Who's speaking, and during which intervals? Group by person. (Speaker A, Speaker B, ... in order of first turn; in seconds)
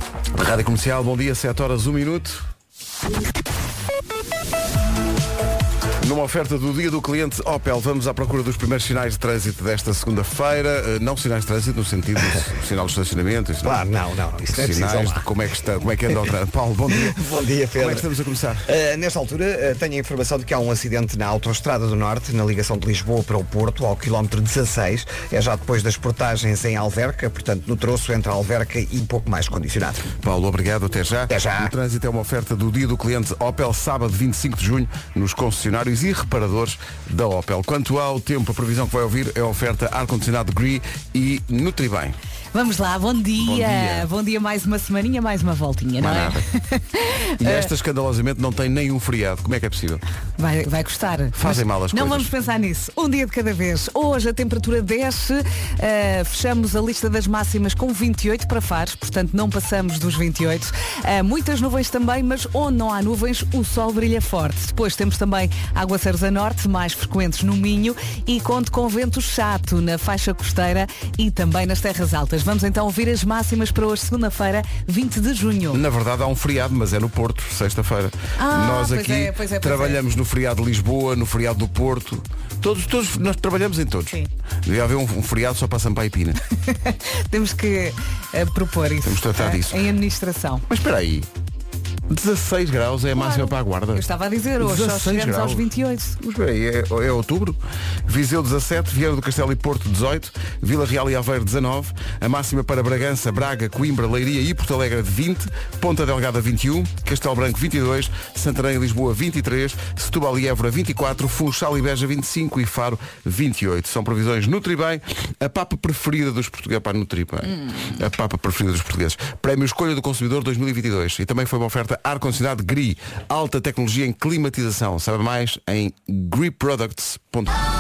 Speaker A: 0.3-2.5, 6.0-13.9, 14.5-17.2, 17.8-18.7, 30.2-42.2, 43.4-44.1, 46.0-46.5, 47.4-50.0, 51.3-52.3, 75.7-86.4, 89.0-89.9, 90.7-91.3, 92.1-94.1, 94.6-95.7, 96.2-127.5
Speaker B: 13.6-15.3, 17.0-18.1, 18.7-30.1, 31.3-31.7
Speaker C: 42.5-47.7, 50.4-75.8, 78.4-80.0, 86.7-90.7, 93.1-96.2